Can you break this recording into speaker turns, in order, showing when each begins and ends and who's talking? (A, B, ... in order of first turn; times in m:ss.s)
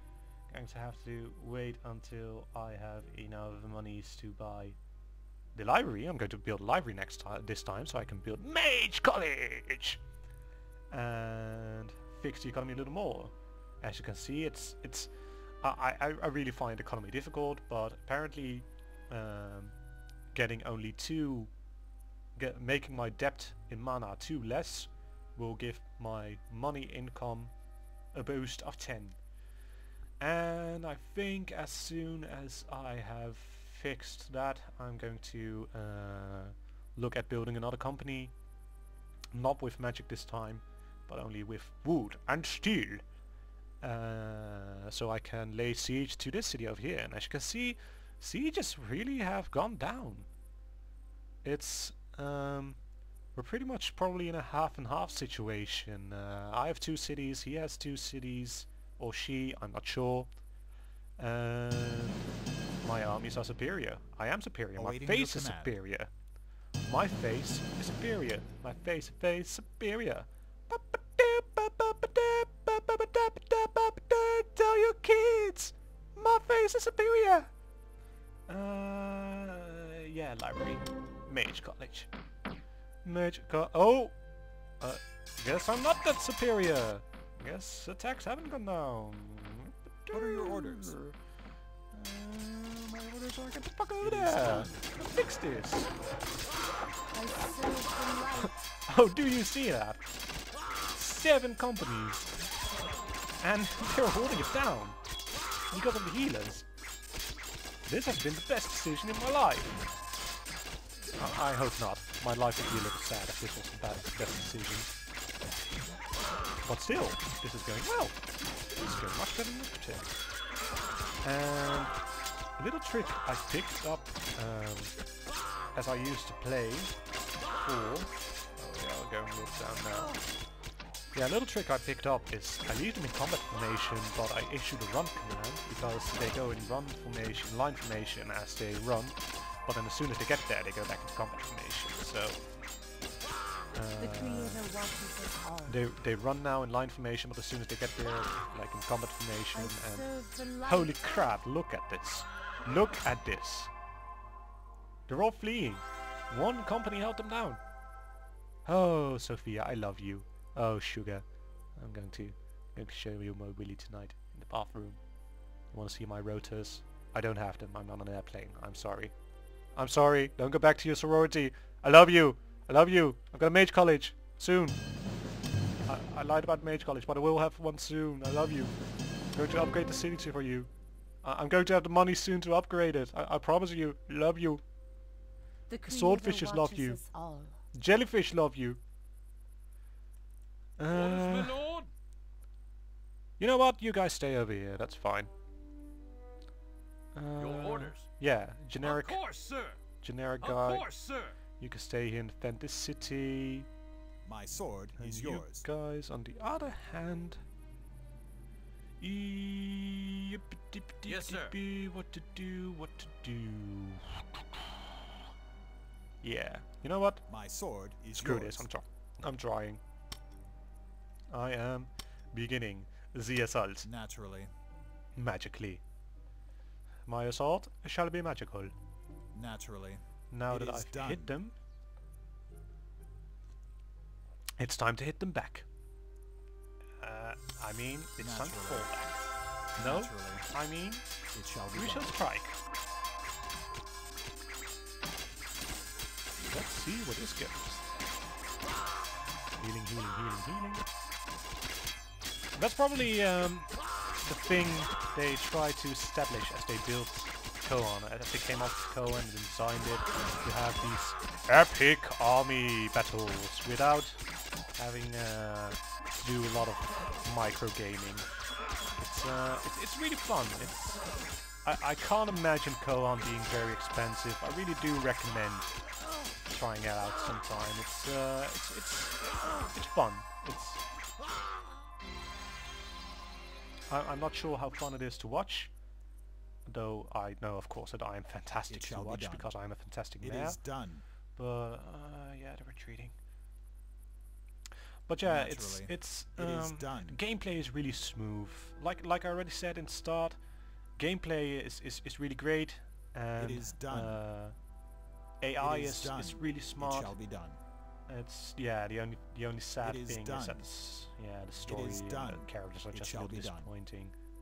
0:00.5-0:04.8 A
0:05.5-0:10.0 A
0:10.9-0:15.1 A
0:15.6-0:19.7 A
0:20.3-0:21.5 A
0:22.4-0:27.5 A
0:28.1-0:29.2 A
0:30.2-0:38.3 A
0:39.3-0:43.0 A
0:43.8-0:50.3 A
0:51.4-0:52.8 A
0:53.3-1:00.3 A
1:01.2-1:02.3 A
1:02.8-1:06.1 A
1:04.8-1:05.8 B
1:06.9-1:17.5 A
1:18.5-1:22.1 A
1:23.0-1:24.1 A
1:24.8-1:31.2 A
1:30.1-1:30.9 B
1:31.9-1:35.9 A
1:34.0-1:34.8 B
1:37.1-1:38.6 C
1:38.4-1:40.0 A
1:40.9-1:42.2 A
1:43.4-1:45.0 A
1:45.7-1:46.7 A
1:47.8-1:49.8 A
1:51.2-1:54.9 A
1:56.6-1:58.2 A
1:58.8-2:00.1 A
2:01.2-2:02.0 A
2:02.6-2:04.9 A
2:05.7-2:06.9 A
2:07.5-2:10.2 A
2:11.1-2:22.4 A
2:23.7-2:24.6 A
2:24.0-2:25.9 C
2:25.6-2:30.1 A
2:29.5-2:31.0 C
2:30.6-2:33.7 A
2:35.1-2:37.6 A
2:38.6-2:41.2 A
2:41.8-2:45.0 A
2:45.7-2:49.1 A
2:49.7-2:54.8 A
2:55.8-2:58.7 A
2:59.3-3:00.7 A
3:01.2-3:04.6 A
3:05.7-3:07.6 C
3:05.8-3:07.0 A
3:07.7-3:08.8 A
3:10.8-3:11.6 A
3:10.9-3:11.9 D
3:13.4-3:15.3 A
3:17.1-3:19.2 A
3:17.4-3:18.1 D
3:18.8-3:19.8 D
3:20.0-3:20.8 A
3:20.4-3:21.4 D
3:21.6-3:23.6 A
3:24.2-3:25.6 B
3:25.0-3:27.4 A
3:29.0-3:34.8 A
3:31.0-3:31.6 D
3:36.2-3:37.2 A
3:37.3-3:38.7 B
3:38.1-3:39.8 A
3:41.3-3:43.9 A
3:43.8-3:44.5 B
3:45.2-3:45.8 A
3:47.0-3:48.7 A
3:49.3-3:51.4 B
3:50.3-3:51.5 A
3:54.6-3:55.6 A
3:57.0-3:59.2 A
3:58.2-3:58.9 B
3:59.8-4:00.5 B
3:59.8-4:01.0 A
4:01.3-4:02.1 B
4:01.7-4:02.6 A
4:06.5-4:07.9 A
4:09.6-4:10.9 A
4:12.6-4:13.7 A
4:14.2-4:24.2 A
4:24.8-4:28.3 A
4:29.0-4:31.0 A
4:31.6-4:35.8 A
4:36.4-4:40.8 A
4:43.9-4:45.7 A
4:46.7-4:50.6 A
4:48.7-4:49.5 B
4:50.2-4:51.0 B
4:51.4-4:53.1 A
4:55.1-5:00.4 A
4:55.2-4:57.2 B
5:01.0-5:04.5 A
5:03.4-5:04.2 B
5:05.4-5:07.1 A
5:05.6-5:07.6 B
5:08.1-5:14.1 A
5:09.8-5:10.6 B
5:11.6-5:13.7 B